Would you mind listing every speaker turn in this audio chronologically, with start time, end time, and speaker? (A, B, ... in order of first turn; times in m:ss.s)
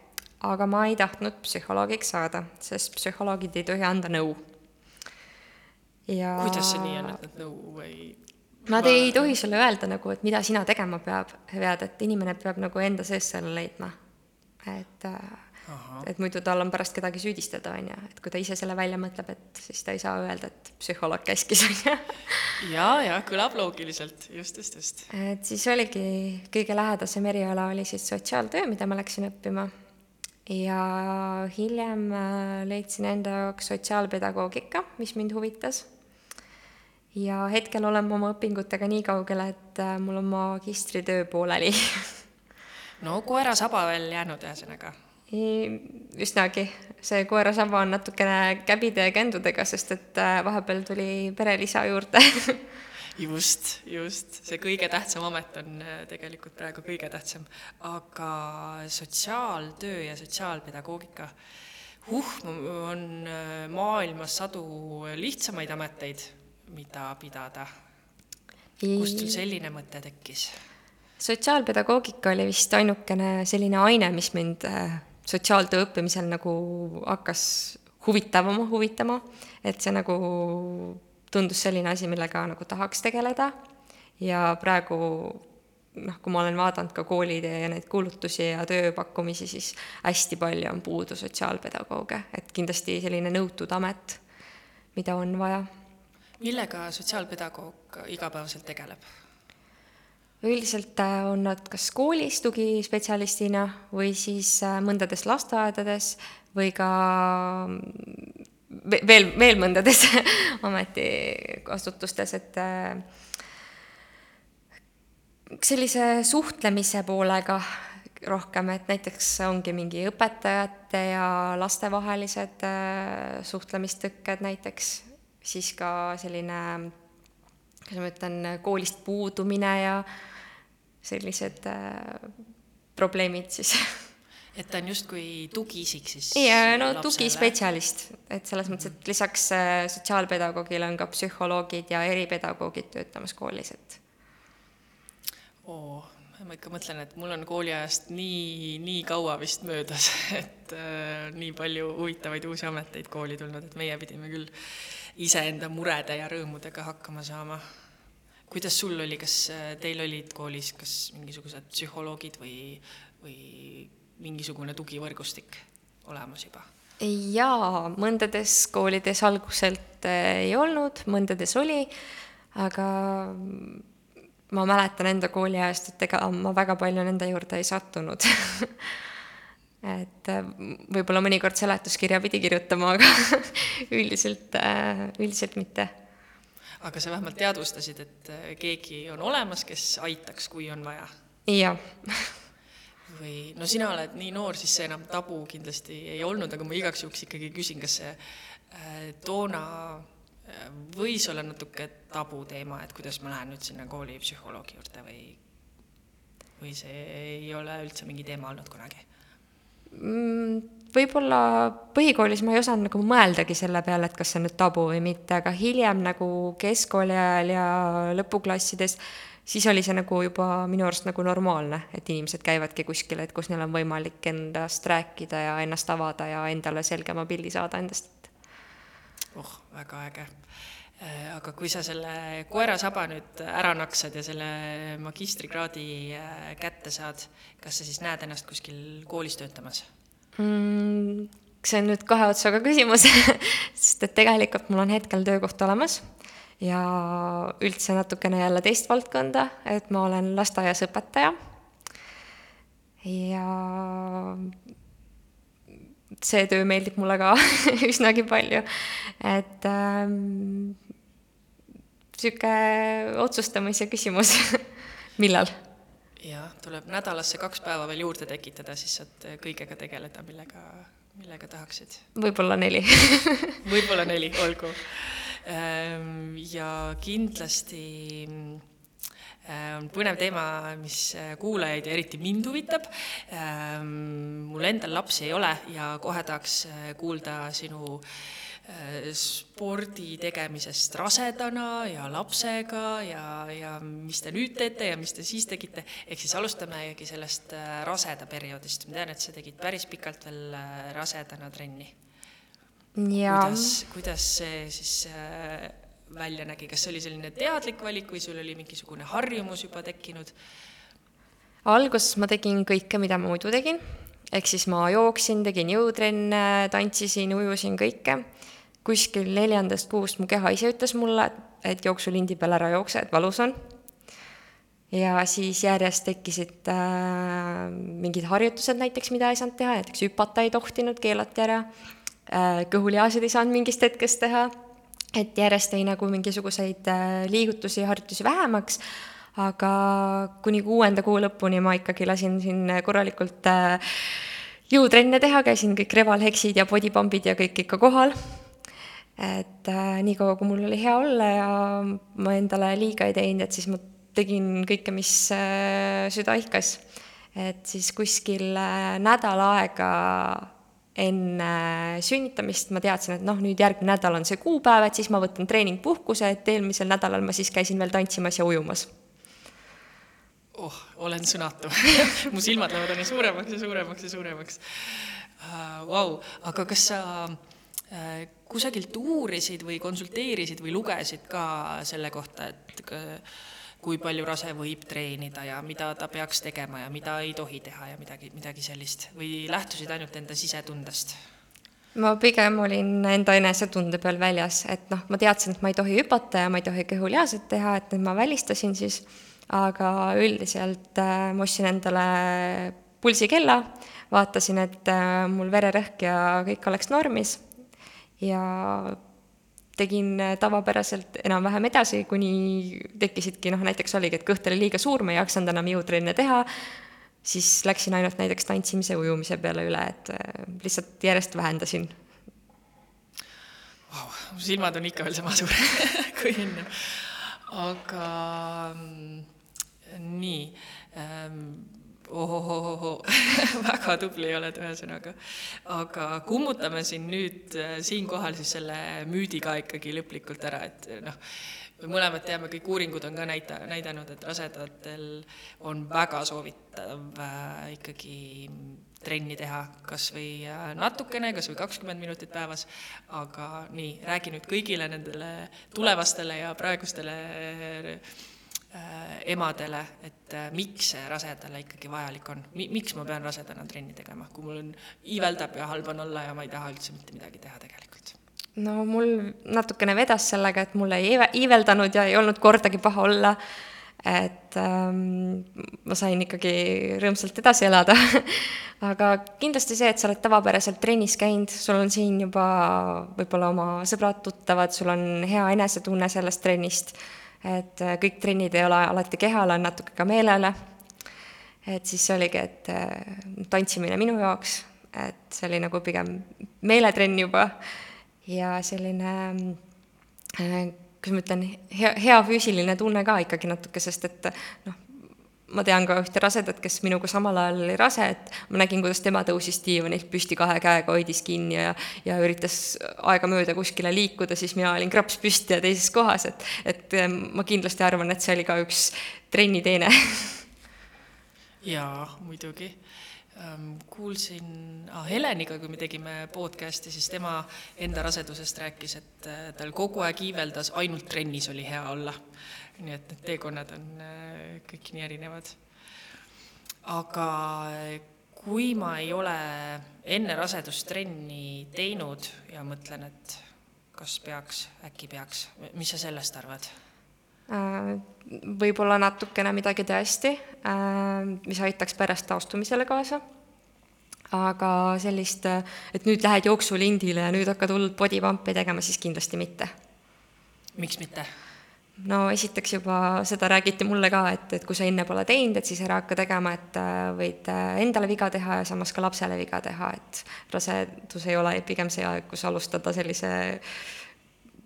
0:00.4-0:04.4 A
0:06.1-0:07.2 A
0:06.4-0:09.3 B
0:08.7-0:13.9 A
0:14.6-0:15.4 A
0:15.7-0:16.1 B
0:16.0-0:22.6 A
0:22.6-0:25.1 B
0:25.1-0:29.7 A
0:30.4-0:35.9 A
0:37.1-0:42.2 A
0:43.0-0:45.0 B
0:45.3-0:52.6 A
0:53.2-1:01.3 B
1:02.0-1:07.7 B
1:08.8-1:09.4 A
1:08.9-1:10.5 B
1:11.2-1:23.5 A
1:24.2-1:25.4 A
1:25.9-1:34.2 A
1:34.9-1:35.7 A
1:36.4-1:39.0 B
1:40.4-1:53.1 A
1:55.5-2:06.9 A
2:07.9-2:10.1 A
2:11.0-2:12.4 A
2:13.0-2:14.0 A
2:14.5-2:17.5 B
2:16.3-2:24.0 A
2:25.6-2:37.6 B
2:38.5-2:46.7 B
2:47.0-2:51.9 A
2:52.5-2:53.8 A
2:54.5-2:59.0 A
2:59.8-3:05.9 A
3:06.8-3:11.1 B
3:11.5-3:12.4 A
3:13.1-3:25.4 B
3:26.6-3:29.0 B
3:29.9-3:48.3 A
3:49.3-3:50.4 B
3:51.0-3:59.9 B
4:00.4-4:06.1 A
4:06.6-4:11.4 A
4:13.0-4:14.5 A
4:16.2-4:20.8 A
4:22.1-4:25.5 A
4:26.2-4:32.0 B
4:32.1-4:33.6 A
4:33.6-4:38.6 B
4:39.4-5:01.9 B
5:03.0-5:03.8 A
5:03.2-5:10.3 B
5:11.6-5:18.2 A
5:18.8-5:23.6 A
5:24.9-5:31.7 A
5:32.3-5:34.5 A
5:35.1-5:38.8 A
5:39.3-5:48.4 A
5:49.2-5:56.8 A
5:57.3-6:08.9 A
6:10.5-6:31.2 B
6:31.9-6:47.4 A
6:48.2-6:49.0 A
6:49.8-7:02.0 A
7:03.9-7:09.3 B
7:09.8-7:38.1 B
7:38.7-7:48.2 B
7:48.6-7:53.4 A
7:54.0-8:10.5 A
8:11.6-8:17.6 A
8:18.2-8:19.6 A
8:20.4-8:40.5 A
8:41.6-8:42.8 B
8:43.3-8:52.2 B
8:52.7-8:55.6 B
8:56.8-9:03.4 B
9:03.9-9:06.7 B
9:07.5-9:13.2 A
9:14.3-9:19.7 A
9:20.8-9:21.3 B
9:22.0-9:34.0 A